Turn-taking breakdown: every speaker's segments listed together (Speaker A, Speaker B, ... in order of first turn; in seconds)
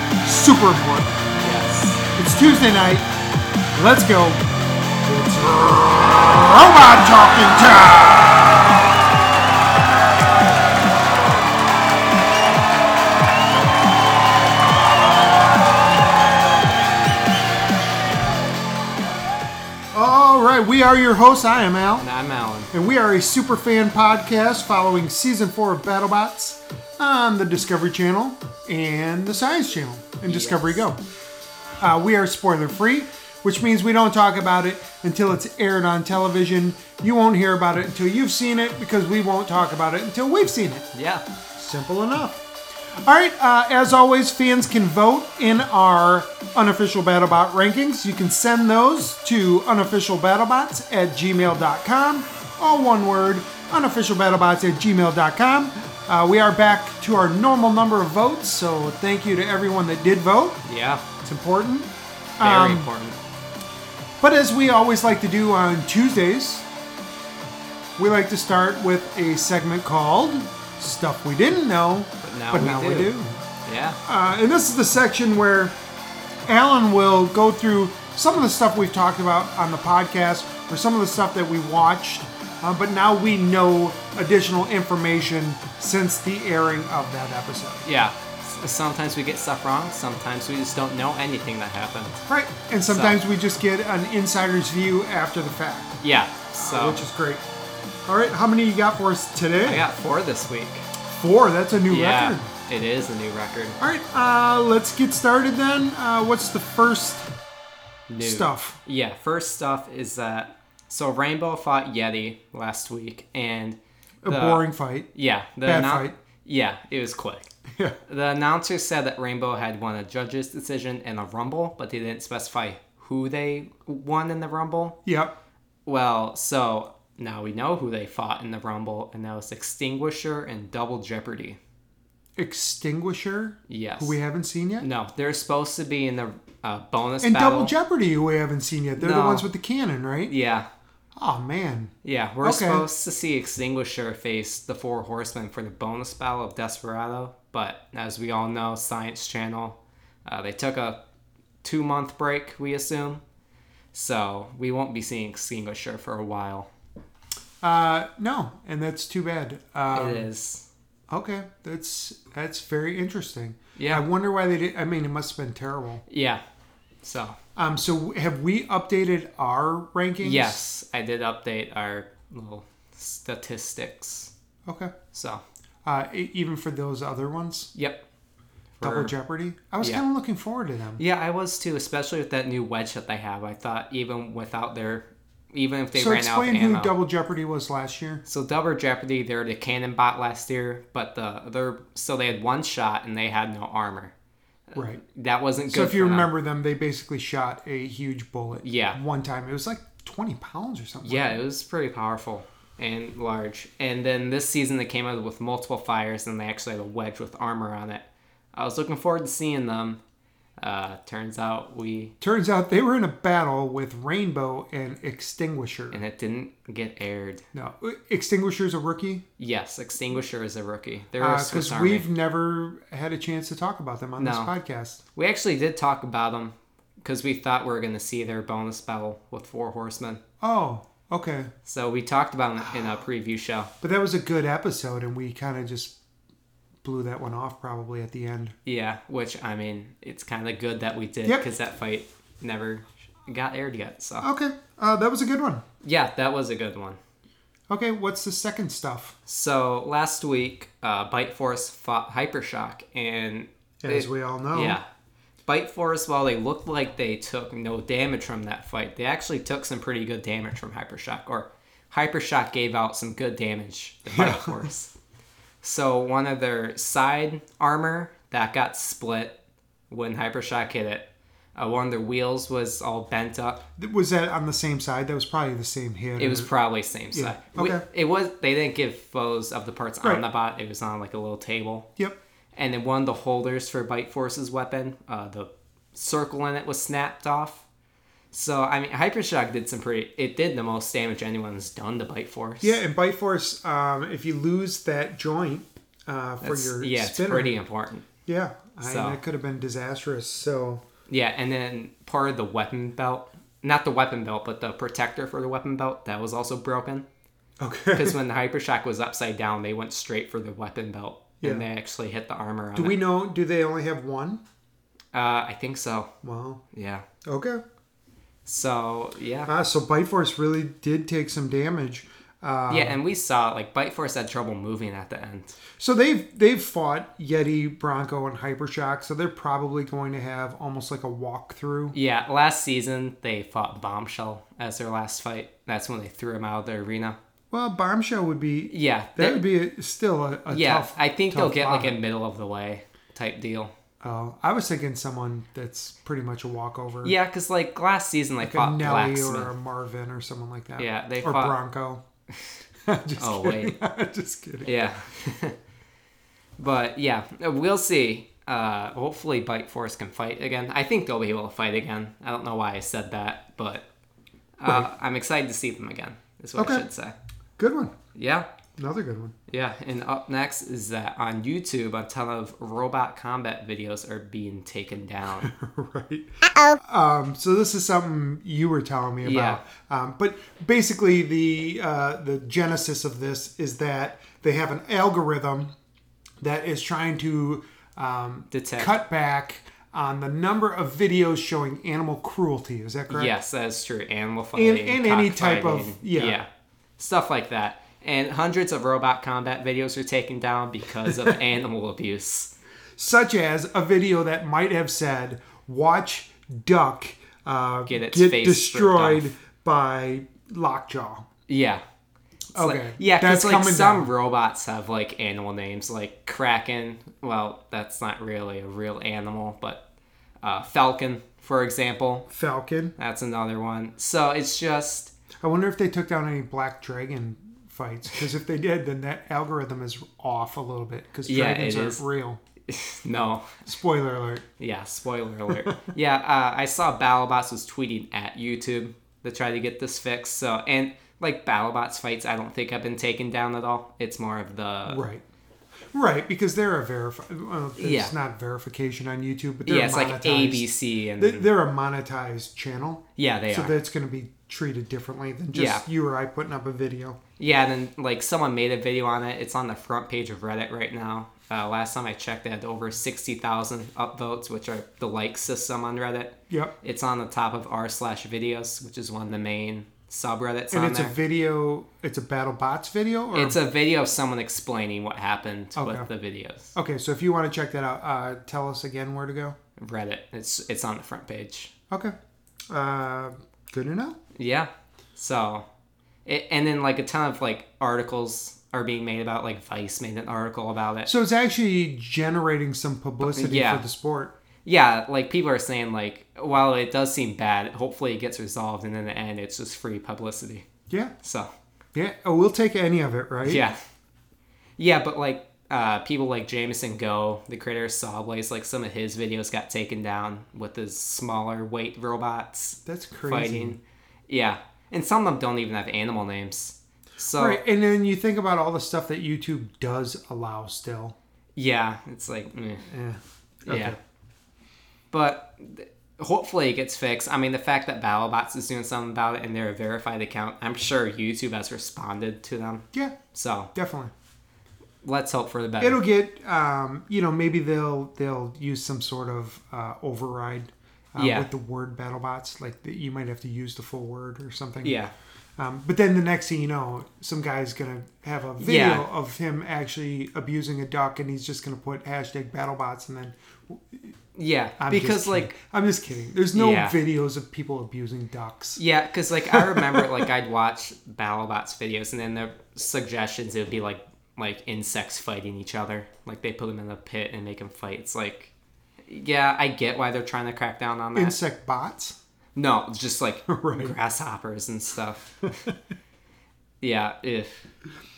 Speaker A: 0.2-1.2, 2.2-3.0, 3.7-4.4, 5.0-8.5, 19.9-22.1, 22.7-31.0, 31.8-40.9, 41.5-42.4, 43.0-60.6, 61.2-62.9, 64.2-66.7, 68.0-73.4, 74.0-75.8, 76.5-87.8, 92.3-96.0, 96.5-97.4, 98.1-99.9, 101.0-102.5, 103.8-107.3, 108.2-108.8, 114.2-115.1, 115.7-116.2, 125.0-125.3, 132.4-134.9, 137.2-140.3, 141.2-142.9, 157.6-160.3, 161.1-166.0, 167.6-170.6, 174.7-174.9, 175.8-177.7, 178.8-181.0, 185.9-188.2, 194.8-195.0, 195.7-201.4, 212.2-216.0, 217.5-219.2, 221.2-225.0, 230.4-231.5, 233.8-235.9, 236.8-238.6, 244.2-245.6, 247.7-249.1, 253.8-254.8, 264.1-264.6, 273.8-276.5, 277.1-277.8, 292.6-297.5, 298.3-300.8, 307.6-308.2, 312.8-314.4, 316.2-316.6, 317.2-317.6, 319.5-323.0, 325.8-331.9, 337.5-342.0, 344.0-347.1, 348.4-352.0, 352.9-354.7, 366.6-366.9, 367.6-367.9, 368.8-369.4, 375.4-385.7, 386.4-393.3, 394.6-396.4, 403.0-411.2, 412.6-414.1, 422.3-422.9, 425.4-432.4, 433.6-434.4, 435.5-435.8, 444.9-445.2, 445.9-450.7, 451.2-457.2, 470.7-473.6, 475.8-476.1, 476.8-479.6, 482.7-484.2, 491.1-494.3, 500.9-501.1, 501.9-503.6, 512.9-513.8, 517.3-521.1, 522.9-524.0, 533.7-534.1, 535.8-545.0, 545.6-554.1, 554.8-558.8, 559.5-560.2, 571.1-572.1, 573.5-573.9
Speaker B: 1.4-2.0, 22.0-22.7, 30.3-30.8, 40.9-41.2, 60.6-61.0, 62.4-63.2, 72.2-74.0, 87.8-92.2, 92.9-93.2, 96.0-97.0, 99.6-100.9, 101.9-103.8, 108.1-117.5, 118.1-125.0, 125.9-131.6, 133.7-134.2, 134.8-137.7, 139.0-139.5, 140.3-140.7, 142.0-151.0, 151.6-153.2, 153.9-156.7, 159.9-160.7, 163.8-164.0, 166.1-166.4, 167.0-167.4, 170.2-174.3, 175.1-175.4, 177.8-178.0, 178.8-179.1, 181.0-186.9, 188.3-194.1, 194.7-196.3, 198.6-199.0, 201.0-210.0, 210.6-212.2, 215.9-217.4, 219.4-222.1, 224.2-224.5, 225.1-230.2, 231.6-233.7, 238.7-244.3, 245.8-247.0, 249.2-254.8, 255.5-264.9, 265.6-269.4, 269.9-271.1, 271.6-273.6, 276.2-281.9, 282.6-287.6, 288.3-292.8, 296.4-298.1, 298.8-299.2, 301.1-307.1, 307.9-313.0, 315.1-316.1, 316.7-317.1, 318.4-319.5, 322.7-325.6, 331.9-337.2, 338.7-339.4, 340.5-343.7, 347.0-349.5, 350.8-351.6, 353.2-353.8, 354.6-355.6, 356.6-363.8, 364.6-367.1, 368.1-368.5, 369.5-375.5, 379.2-379.6, 388.5-388.9, 393.1-402.5, 407.9-409.3, 411.5-411.8, 412.6-419.8, 420.4-422.3, 423.0-425.1, 431.2-432.0, 432.7-433.6, 434.6-445.0, 447.8-448.1, 449.7-451.5, 453.2-453.8, 455.5-455.8, 457.4-471.2, 473.3-476.8, 479.8-481.7, 484.3-485.6, 486.3-491.1, 493.2-493.8, 494.6-500.7, 501.2-501.5, 503.4-503.8, 504.8-517.6, 521.6-522.8, 523.7-524.0, 525.1-533.7, 535.0-536.0, 541.2-541.5, 544.8-545.1, 548.6-549.1, 554.4-555.5, 556.5-557.0, 558.8-568.5, 569.1-571.4, 572.5-575.7, 576.8-577.6